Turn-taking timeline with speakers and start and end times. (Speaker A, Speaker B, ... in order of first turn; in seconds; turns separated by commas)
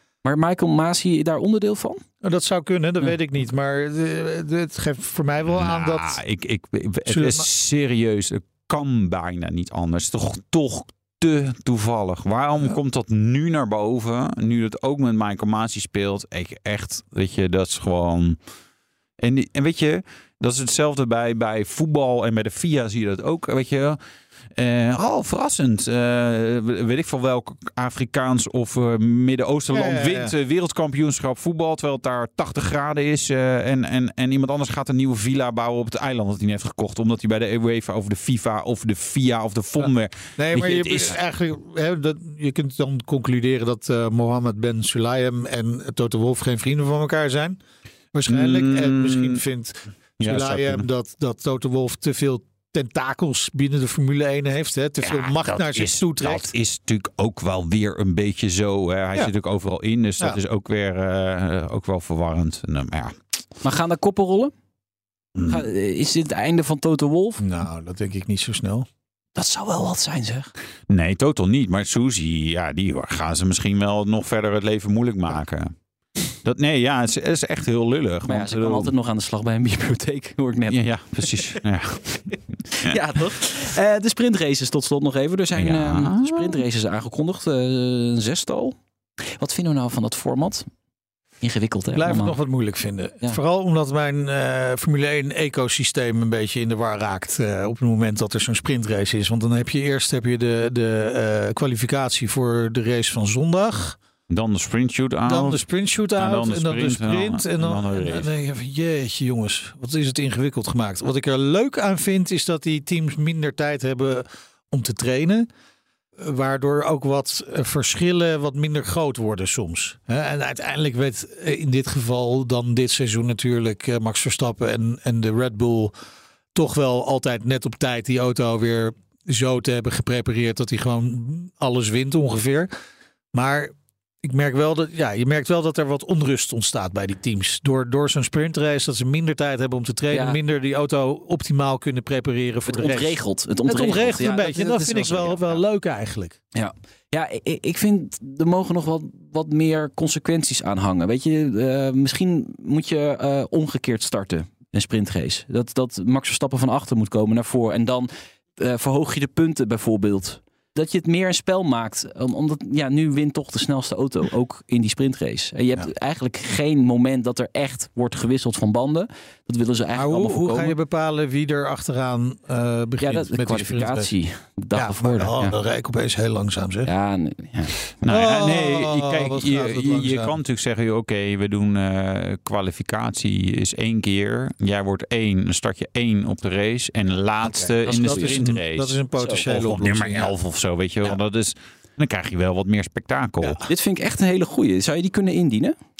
Speaker A: 0.2-2.0, Speaker B: 2.2-6.2, Speaker C: 5.5-18.4, Speaker B: 7.0-7.5, Speaker C: 19.2-24.0, Speaker C: 24.6-41.2, Speaker B: 29.7-30.3, Speaker B: 40.4-47.6, Speaker B: 48.1-56.5, Speaker C: 48.3-49.4, Speaker C: 50.2-50.9, Speaker C: 55.0-63.1, Speaker A: 63.6-64.5, Speaker A: 65.5-67.4, Speaker B: 67.4-68.9, Speaker A: 69.3-70.5, Speaker C: 70.9-75.7, Speaker C: 76.4-78.9, Speaker A: 78.2-81.6, Speaker C: 80.7-83.0, Speaker A: 82.8-88.7, Speaker C: 85.5-86.6, Speaker A: 89.2-90.7, Speaker A: 91.4-92.3, Speaker B: 91.9-104.0, Speaker C: 104.3-105.6, Speaker B: 105.2-115.5, Speaker C: 106.2-108.3, Speaker B: 116.2-125.9, Speaker B: 126.5-132.7, Speaker B: 133.3-146.3, Speaker A: 140.1-140.4, Speaker A: 142.7-145.6, Speaker A: 146.5-170.8, Speaker B: 169.9-174.1, Speaker A: 173.0-175.6, Speaker B: 174.7-176.9, Speaker A: 176.8-177.8, Speaker C: 178.0-193.6, Speaker B: 178.0-180.4, Speaker B: 187.4-190.3, Speaker A: 187.8-188.4, Speaker A: 189.2-189.5, Speaker A: 193.7-195.8